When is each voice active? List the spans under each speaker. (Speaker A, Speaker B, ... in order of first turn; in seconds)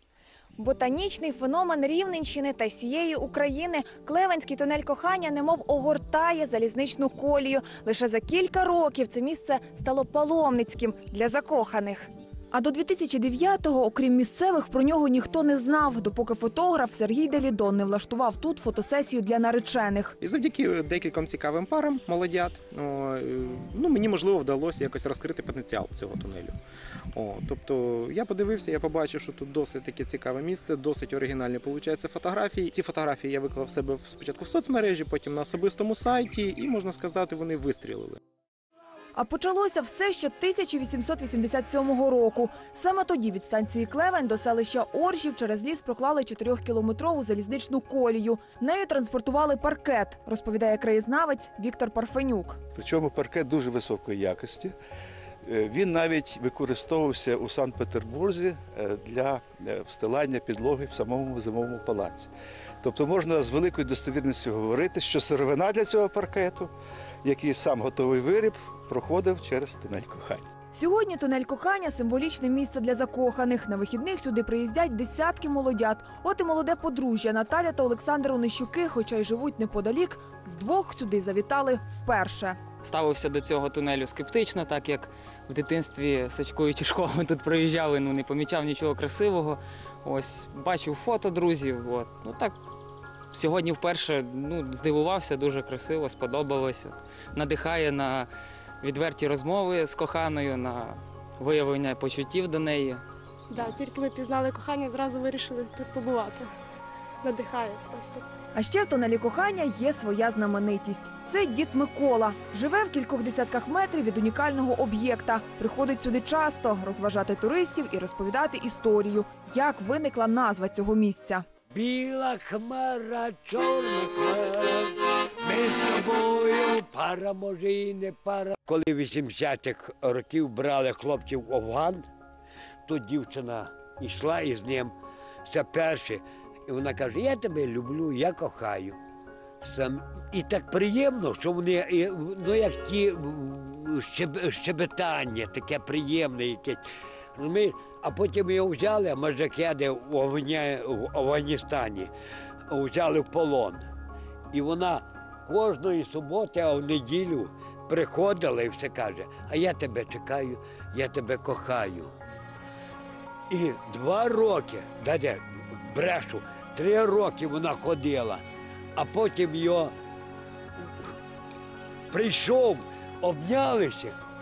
Speaker A: 0.6-20.1, 39.2-52.6, 70.7-82.6, 108.5-121.5
Speaker B: 20.2-26.6, 27.1-38.2
Speaker C: 52.8-54.7, 55.5-62.3, 62.8-66.7, 67.2-70.5
Speaker D: 82.8-92.5, 93.3-98.3, 98.8-103.0
Speaker E: 103.5-106.5, 107.2-108.3
Speaker F: 121.7-132.1, 132.9-134.9, 135.4-139.0, 139.6-146.8, 147.4-152.1, 152.7-153.8, 154.5-162.1, 163.5-168.4, 169.0-169.9, 172.1-174.2